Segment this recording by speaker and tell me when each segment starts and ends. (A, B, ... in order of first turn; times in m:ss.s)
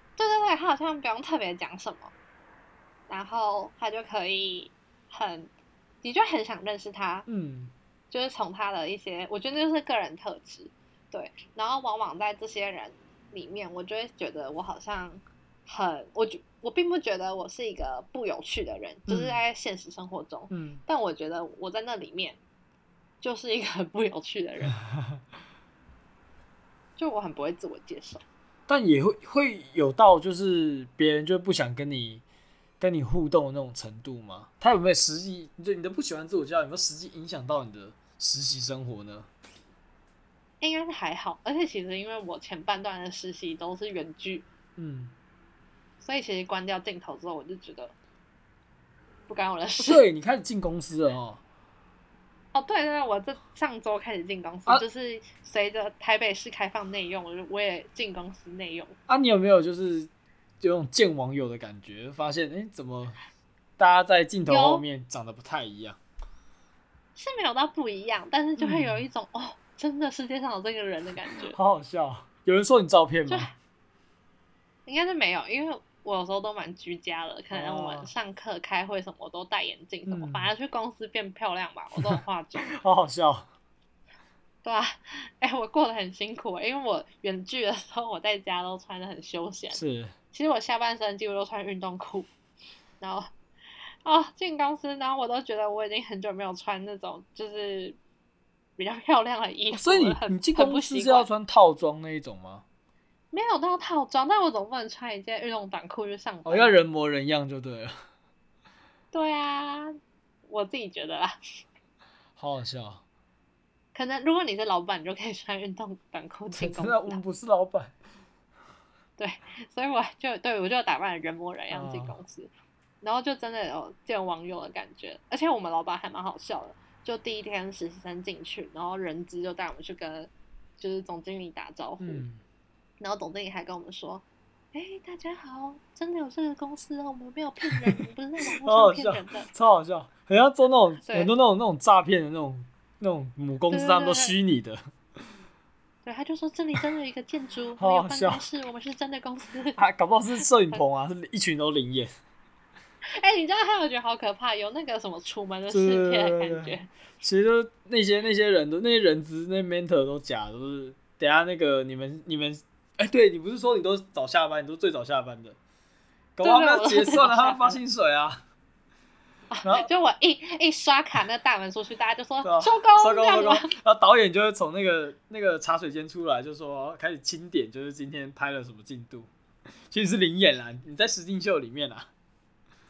0:00.2-0:02.1 A
0:03.1-0:05.5 A
0:06.0-0:07.3 A
0:07.3-0:07.7 B
0:08.1-0:22.4 A
0:19.1-0:19.4 B
0:20.5-0:20.8 B
0:23.2-0:24.8 A
0:27.0-0:28.2 A
0:28.7-0:32.2 B
0:32.8-0:39.3 B
0:40.6-0:44.4 A
0:44.8-0:45.1 B
0:46.0-0:47.9 A
0:49.3-0:50.0 A
0:49.8-0:51.4 B
0:52.5-0:59.0 A
0:59.1-1:00.1 B
1:00.6-1:03.2 B
1:03.8-1:06.0 B
1:04.5-1:04.8 A
1:07.2-1:11.6 A
1:08.6-1:09.0 B
1:11.5-1:13.5 B
1:13.3-1:13.5 A
1:14.8-1:22.7 A
1:17.5-1:18.1 B
1:20.1-1:20.5 B
1:22.0-1:23.5 B
1:24.6-1:29.8 A
1:29.7-1:30.2 B
1:30.3-1:32.3 A
1:33.0-1:33.3 A
1:34.0-1:38.0 A
1:38.8-1:41.3 A
1:39.7-1:42.6 B
1:43.3-1:46.7 A
1:46.4-1:48.0 B
1:49.1-1:49.9 A
1:50.5-1:51.6 A
1:52.4-1:53.0 B
1:53.9-1:57.2 A
1:56.5-1:58.0 B
1:59.2-2:02.5 A
2:01.7-2:02.2 B
2:03.0-2:12.2 A
2:12.0-2:12.4 B
2:13.0-2:19.5 A
2:17.6-2:18.0 B
2:18.6-2:24.8 B
2:21.0-2:21.3 A
2:23.7-2:24.3 A
2:26.0-2:29.8 A
2:27.8-2:28.4 B
2:29.8-2:32.1 B
2:33.1-2:36.9 A
2:35.7-2:45.6 B
2:46.4-2:48.4 B
2:46.4-2:47.8 A
2:49.5-2:53.7 A
2:52.4-2:59.3 B
2:59.9-3:02.1 B